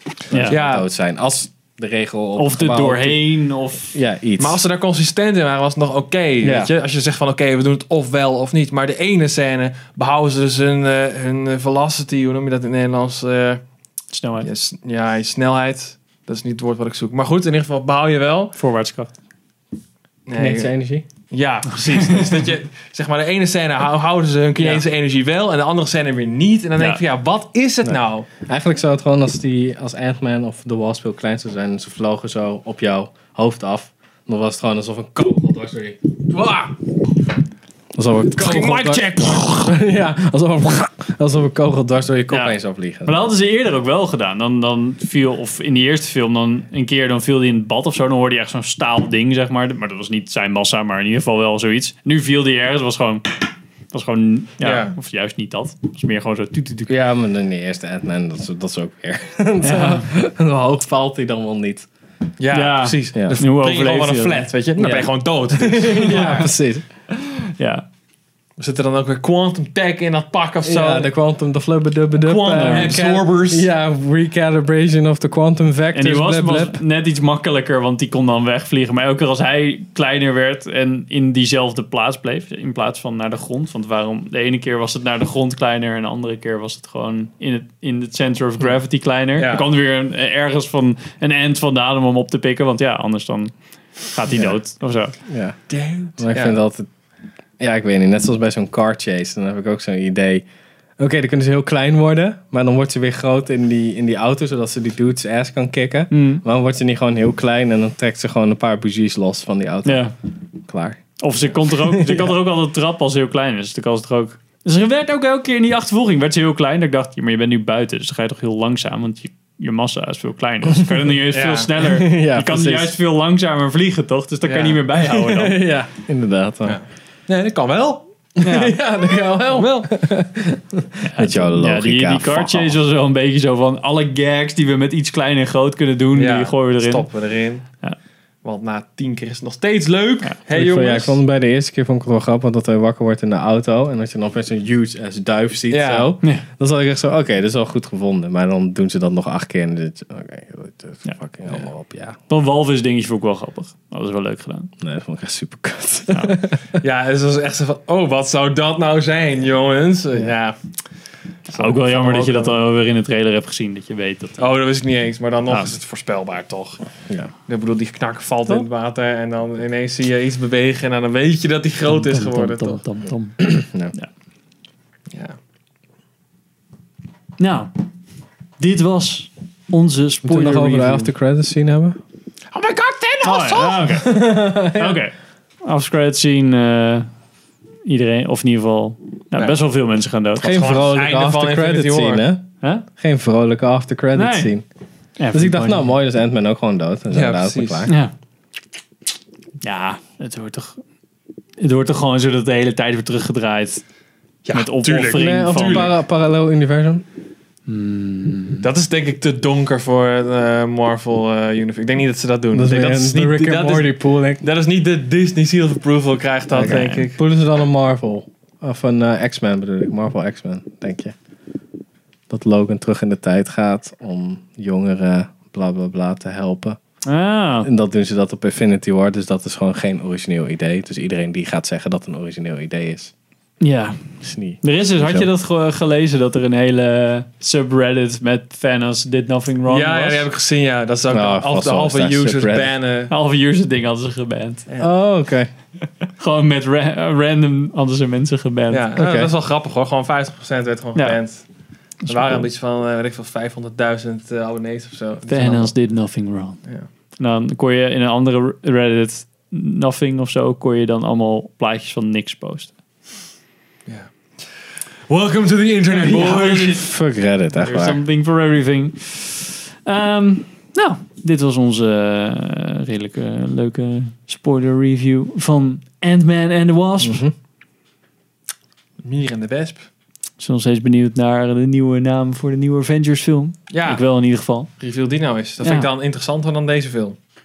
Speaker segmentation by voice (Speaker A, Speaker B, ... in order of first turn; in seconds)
Speaker A: 0.3-3.2, 3.9-4.6, 6.4-6.7, 20.4-21.1, 27.9-36.2, 38.0-43.2, 56.9-61.9, 64.8-66.8, 70.6-76.8, 94.3-94.6, 95.3-95.6, 96.2-96.9, 97.6-100.5, 101.0-110.1, 110.7-111.1, 111.7-112.3, 121.8-123.0, 125.0-126.8, 128.4-132.8, 140.5-152.2, 154.8-156.8, 173.4-173.9, 180.2-182.0, 183.9-185.0, 190.4-194.7, 195.3-197.9, 205.1-207.0, 212.5-214.4, 216.6-221.2, 222.3-226.8, 227.6-233.1, 234.2-235.3, 241.1-242.7, 244.8-245.5, 248.9-249.3, 266.7-268.0, 277.0-277.3
Speaker B: 0.3-0.6, 2.4-4.0, 14.1-14.5, 18.6-19.1, 38.4-39.7, 42.3-56.9, 59.6-60.1, 62.5-65.1, 66.2-66.4, 67.2-67.8, 72.6-73.0, 75.9-93.5, 94.0-95.2, 106.1-106.4, 109.8-110.1, 111.2-125.6, 128.4-128.8, 131.0-137.1, 152.3-154.7, 161.5-164.4, 171.9-174.1, 177.4-177.8, 178.6-181.1, 183.2-187.1, 187.9-190.7, 194.2-194.5, 195.2-195.9, 197.9-198.1, 199.6-200.8, 201.6-203.8, 204.5-205.9, 207.7-208.7, 216.6-217.1, 227.1-227.7, 233.6-240.2, 243.1-244.7, 246.2-248.8, 252.1-252.5, 255.3-256.6, 257.2-262.7, 265.9-266.8, 267.6-277.2, 280.4-284.7, 285.6-285.9
Speaker C: 0.5-0.9, 4.4-13.6, 14.4-18.6, 20.3-20.7, 21.3-28.3, 36.3-36.7, 54.6-54.9, 62.4-66.5, 68.6-71.1, 72.2-73.7, 89.4-89.7, 95.7-96.6, 121.3-121.7, 124.5-124.8, 126.7-128.1, 129.5-129.9, 136.1-137.7, 138.4-141.2, 145.7-146.1, 156.8-160.6, 161.5-162.6, 164.4-166.8, 167.5-172.8, 175.1-175.4, 182.5-183.9, 190.4-192.2, 197.1-197.9, 204.5-205.9, 208.6-217.2, 239.7-243.1, 248.7-251.4, 252.1-255.8, 265.1-266.9, 279.0-279.9, 283.7-284.0, 284.8-287.2